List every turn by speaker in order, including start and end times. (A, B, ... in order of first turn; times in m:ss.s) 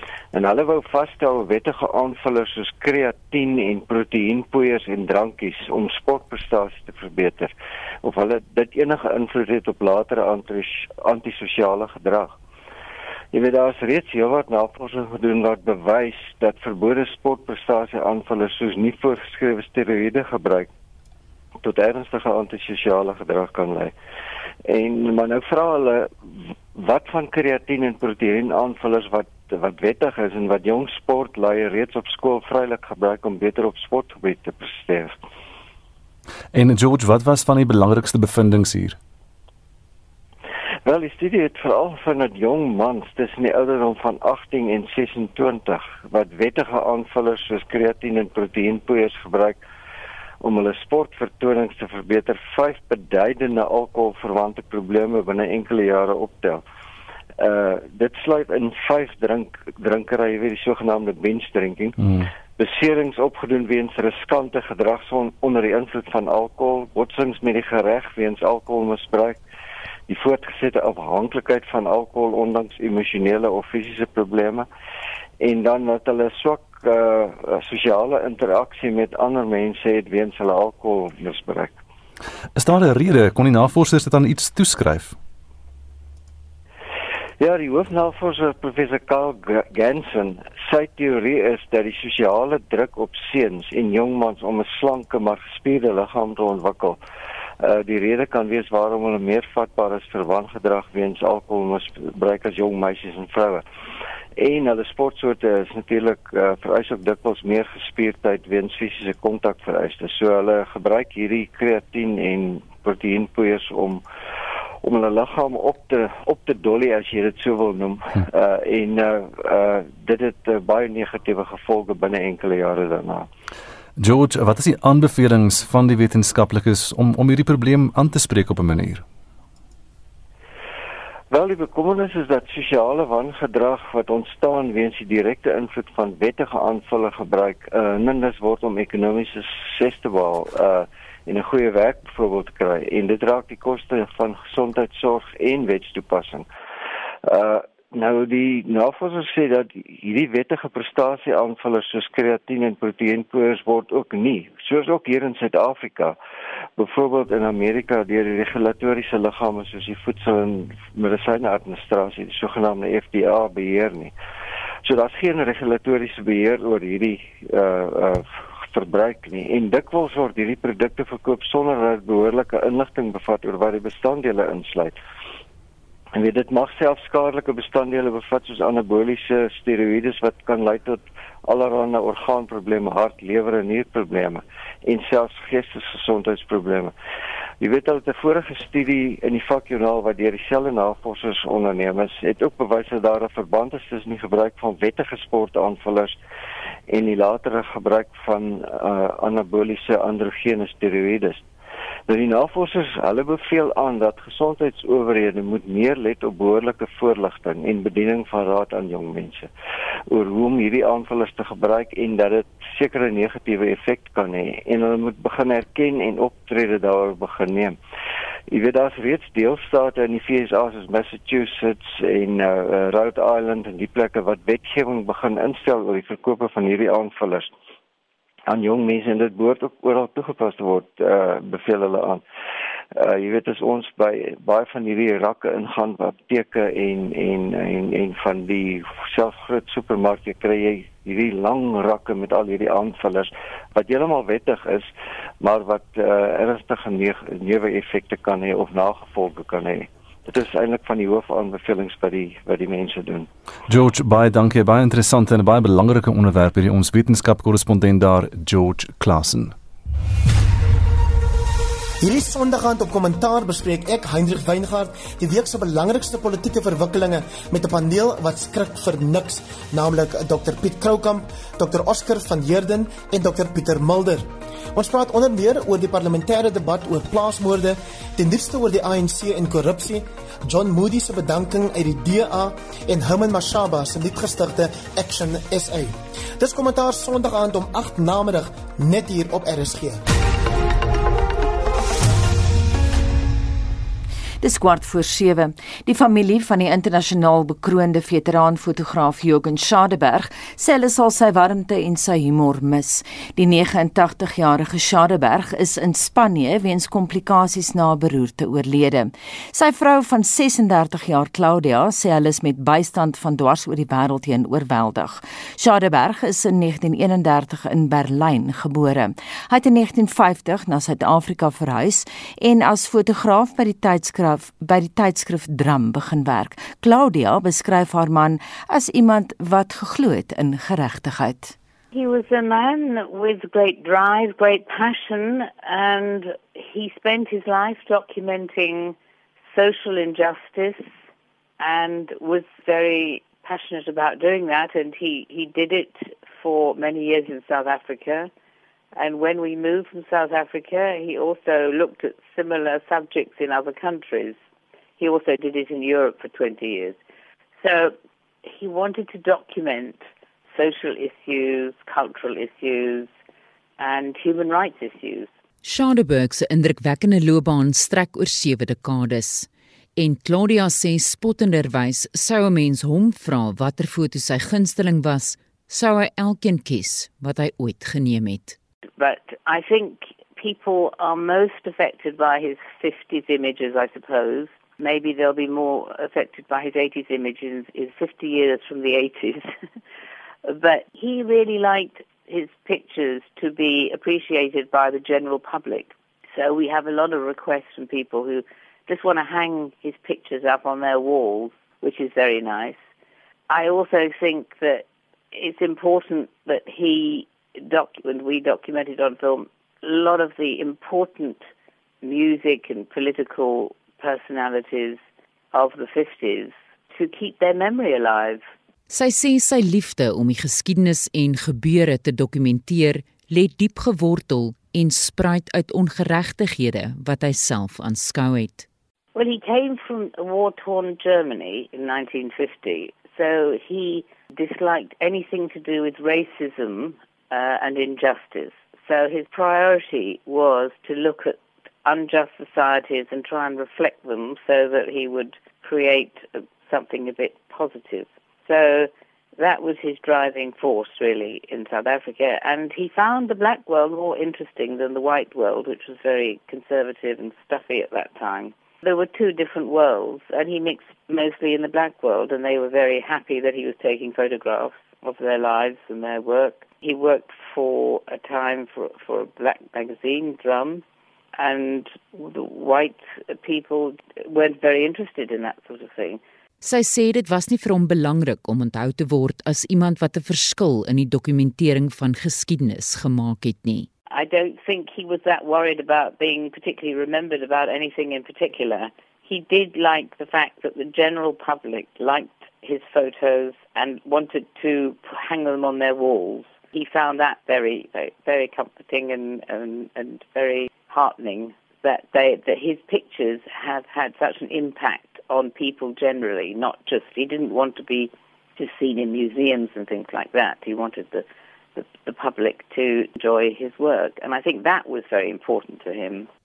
0:00.3-0:07.5 A
0:08.0-0:12.3 A
0:13.3-0:20.7 A
0:21.6-0:23.9 A
0:24.7-0:26.1 A
0:26.7-0:35.2 A
0:36.5-0:39.0 B
0:40.8-0:49.6 A
0:50.4-0:56.6 A
0:57.4-1:02.0 A
1:02.0-1:02.3 B
1:02.6-1:09.4 A
1:10.1-1:14.7 A
1:15.4-1:21.8 A
1:22.6-1:25.1 B
1:27.4-1:37.0 A
1:37.6-1:43.6 A
1:44.4-1:54.0 A
1:54.8-2:03.3 A
2:04.0-2:09.0 B
2:11.3-2:26.5 A
2:27.2-2:36.2 A
2:36.8-2:44.1 A
2:44.8-2:54.9 A
2:56.2-3:06.9 A
3:07.6-3:16.2 A
3:16.9-3:21.4 A
3:22.1-3:29.5 A
3:30.1-3:37.8 A
3:38.5-3:47.5 A
3:48.5-3:52.2 A
3:53.0-4:04.9 A
4:05.4-4:13.3 A
4:13.7-4:19.5 B
4:22.0-4:50.0 C
4:54.4-5:31.5 D
5:31.9-5:39.0 E
5:39.5-5:40.8 E
5:41.6-5:48.3 E
5:49.0-5:54.4 E
5:55.0-5:57.0 E
5:57.6-6:00.0 E
6:00.5-6:03.1 E
6:03.8-6:05.3 E
6:05.6-6:18.6 F
6:19.0-6:29.5 E
6:30.4-6:42.8 E
6:43.5-6:51.4 E
6:52.0-6:55.0 E
6:55.5-6:58.4 E
6:58.9-7:08.6 F
7:09.1-7:50.8 E
7:51.4-7:56.2 E
7:56.6-8:03.9 F
8:04.1-8:31.2 E
8:31.8-8:36.3 E